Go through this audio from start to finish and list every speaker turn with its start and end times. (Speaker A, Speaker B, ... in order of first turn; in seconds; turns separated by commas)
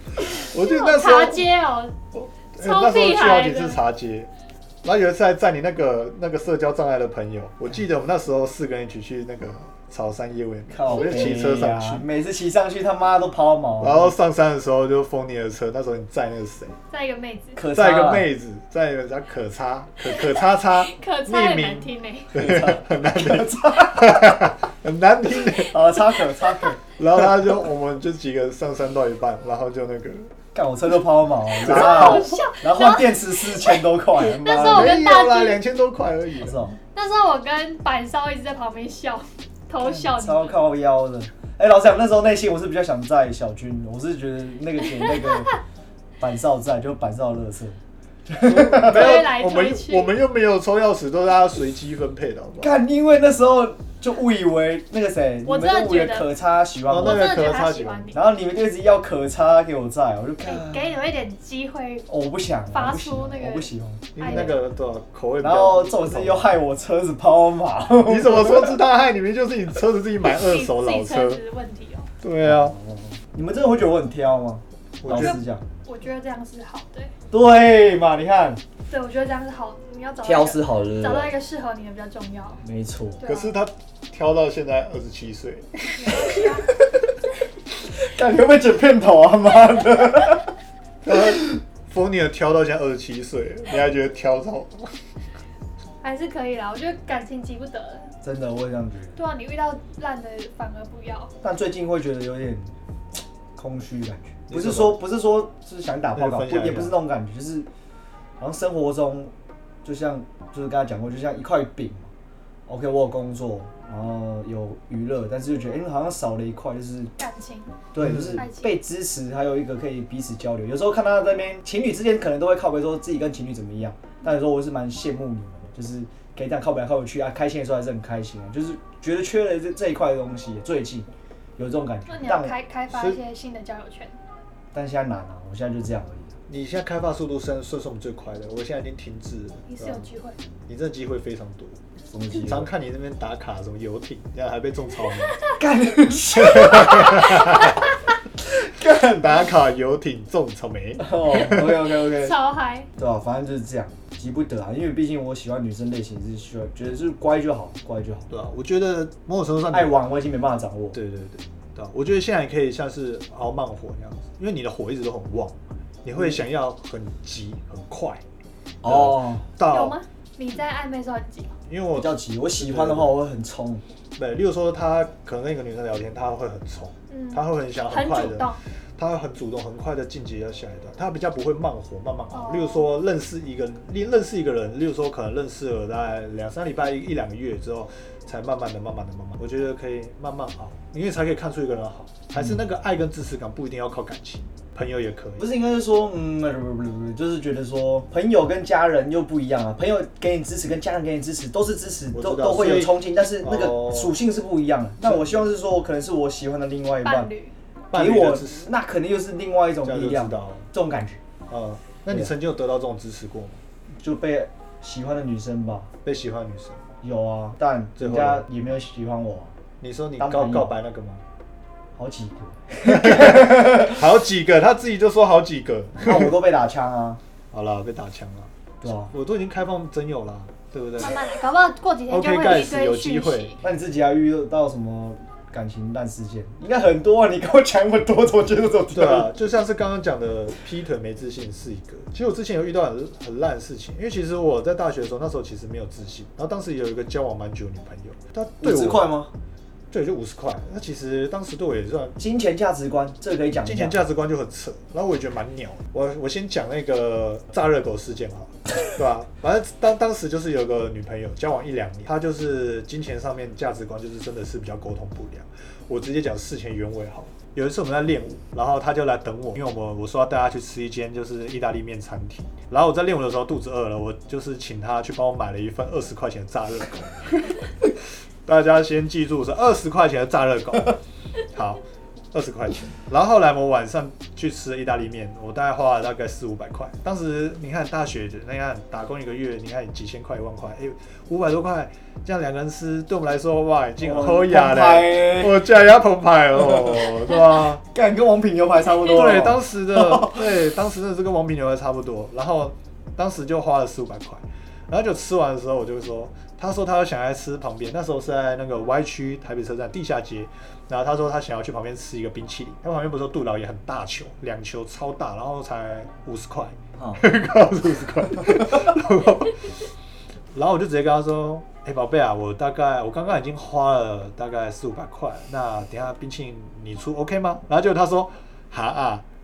Speaker A: 0.3-1.4, Speaker B: 0.4-1.9, Speaker A: 2.1-4.3, Speaker B: 2.6-3.8, Speaker A: 4.8-12.0, Speaker C: 10.7-14.1, Speaker B: 10.9-11.4, Speaker A: 13.8-16.8, Speaker B: 16.9-17.6, Speaker C: 17.6-18.3, Speaker A: 17.7-25.9, Speaker B: 20.0-22.3, Speaker C: 22.3-24.4, Speaker C: 25.6-26.8, Speaker A: 27.0-30.3, Speaker C: 30.5-34.9, Speaker B: 31.6-35.6, Speaker A: 31.6-32.3, Speaker A: 34.5-36.6, Speaker C: 36.4-36.8, Speaker B: 36.9-40.6, Speaker C: 39.8-45.6, Speaker C: 46.2-49.2, Speaker A: 48.5-52.8, Speaker B: 48.7-50.1, Speaker C: 52.6-57.3, Speaker B: 55.5-56.3, Speaker A: 56.9-58.1, Speaker B: 57.0-58.2, Speaker C: 58.1-60.9, Speaker B: 60.4-62.1, Speaker C: 62.1-64.5, Speaker B: 62.7-64.5, Speaker A: 64.2-66.5, Speaker C: 65.4-68.7, Speaker A: 68.0-71.4, Speaker B: 70.2-72.1, Speaker A: 72.2-72.8, Speaker C: 72.4-75.6, Speaker A: 75.0-75.4, Speaker B: 75.1-77.1, Speaker C: 77.3-78.6, Speaker B: 78.9-82.6, Speaker C: 80.2-81.3, Speaker C: 82.6-83.2, Speaker B: 83.2-83.5, Speaker A: 83.2-86.5, Speaker B: 85.9-86.7, Speaker C: 87.9-90.5, Speaker A: 91.0-94.9, Speaker B: 96.0-98.1, Speaker C: 98.2-99.2, Speaker B: 99.2-101.3, Speaker C: 101.4-102.7, Speaker C: 103.5-107.7, Speaker A: 104.5-105.0, Speaker A: 106.1-107.0, Speaker C: 108.4-109.3, Speaker C: 109.8-112.1, Speaker C: 112.7-117.1, Speaker B: 117.2-117.7, Speaker C: 117.9-132.5, Speaker A: 118.0-118.4, Speaker B: 118.3-118.8, Speaker B: 132.1-134.2, Speaker A: 132.9-133.2, Speaker C: 134.7-136.3, Speaker A: 136.5-140.0, Speaker B: 139.7-140.4, Speaker A: 140.7-141.8, Speaker C: 142.1-142.7, Speaker A: 142.4-145.3, Speaker B: 145.2-145.6, Speaker C: 145.5-147.7, Speaker A: 146.3-147.8, Speaker C: 148.5-149.3, Speaker A: 148.9-151.8, Speaker C: 151.0-152.3, Speaker B: 152.2-152.9, Speaker C: 152.9-158.3, Speaker A: 158.3-160.0, Speaker C: 159.7-161.0, Speaker A: 160.9-168.2, Speaker C: 168.8-169.4, Speaker A: 168.8-170.0, Speaker B: 169.6-171.5, Speaker A: 171.7-173.1, Speaker C: 171.9-173.8, Speaker A: 174.2-195.4, Speaker B: 177.1-178.6, Speaker B: 182.3-182.8, Speaker C: 195.4-207.3, Speaker A: 202.1-204.2, Speaker A: 205.0-205.3, Speaker B: 207.0-207.5, Speaker A: 207.9-208.7, Speaker C: 207.9-211.2, Speaker A: 209.8-210.7, Speaker A: 211.5-213.6, Speaker C: 214.0-215.9, Speaker A: 216.0-216.8, Speaker C: 217.0-219.5, Speaker A: 218.0-218.4, Speaker A: 219.8-221.2, Speaker C: 220.2-220.7, Speaker C: 221.9-224.0, Speaker A: 222.8-226.3, Speaker C: 226.0-227.2, Speaker A: 227.5-231.2, Speaker C: 228.8-229.1, Speaker B: 231.0-233.6, Speaker A: 232.1-233.6, Speaker C: 233.6-239.3, Speaker A: 238.9-249.1, Speaker C: 248.6-249.3, Speaker A: 249.9-252.2, Speaker C: 252.2-254.0, Speaker A: 253.6-277.9, Speaker A: 278.4-281.0, Speaker A: 281.5-281.8, Speaker A: 282.3-297.8, Speaker C: 294.0-295.6, Speaker C: 297.9-300.4, Speaker A: 299.0-319.8, Speaker C: 317.0-317.2, Speaker A: 320.5-329.2